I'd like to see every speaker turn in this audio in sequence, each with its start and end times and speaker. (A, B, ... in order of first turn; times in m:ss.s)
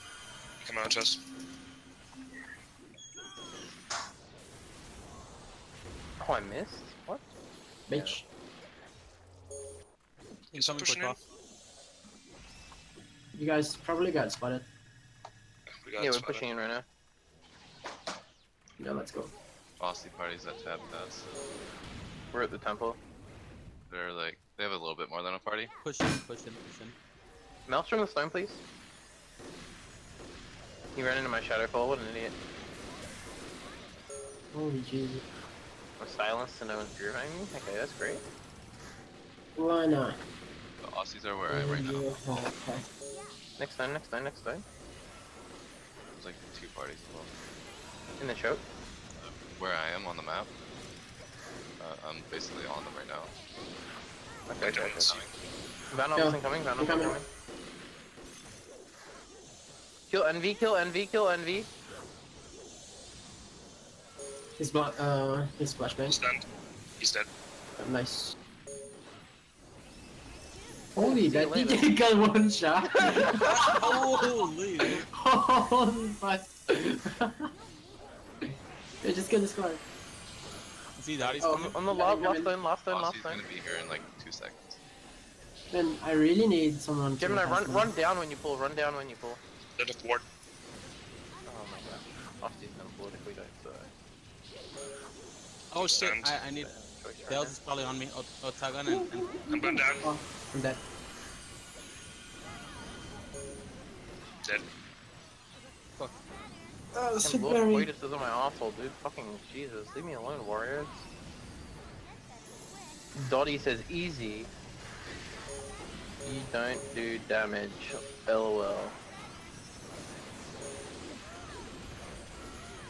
0:00.6-0:01.2 A
0:06.2-0:07.3 B
0:07.9-0:08.2 B
0:07.9-0:08.3 C
0:10.5-0:11.2 D
0:10.5-0:11.2 A
0:13.3-0:14.6 C
0:15.7-0:16.7 A
0:16.0-0:16.8 B
0:18.8-0:19.3 C
0:19.8-0:21.3 E
0:22.3-0:23.0 B
0:23.9-0:25.7 E
0:25.8-0:26.9 D
0:27.7-0:28.6 B
0:30.9-0:32.4 B
0:34.5-0:35.2 C
0:36.0-0:38.2 B
0:39.6-0:40.2 C
0:40.8-0:42.2 E
0:41.5-0:42.8 C
0:43.6-0:44.6 B
0:46.1-0:47.3 E
0:48.2-0:48.6 B
0:49.2-0:50.5 E
0:51.8-0:53.3 E
0:54.5-0:55.2 B
0:54.6-0:55.2 A
0:55.0-0:55.3 E
0:55.9-0:57.3 B
0:56.1-0:57.2 C
1:00.1-1:01.7 B
1:04.6-1:06.2 C
1:06.1-1:06.4 A
1:07.0-1:07.3 A
1:07.8-1:08.4 C
1:11.0-1:14.1 C
1:11.0-1:11.9 B
1:13.1-1:15.0 D
1:14.9-1:17.5 C
1:18.5-1:19.8 C
1:21.0-1:21.8 D
1:21.2-1:23.4 B
1:21.4-1:22.5 C
1:22.9-1:24.8 E
1:25.7-1:27.9 C
1:27.2-1:29.4 B
1:29.8-1:30.2 A
1:31.4-1:33.9 B
1:35.7-1:36.7 D
1:35.7-1:36.5 A
1:36.5-1:37.6 B
1:37.2-1:39.3 D
1:39.5-1:40.1 A
1:39.6-1:40.8 C
1:46.9-1:47.9 C
1:47.2-1:51.1 B
1:53.1-1:54.5 B
1:56.2-1:59.0 B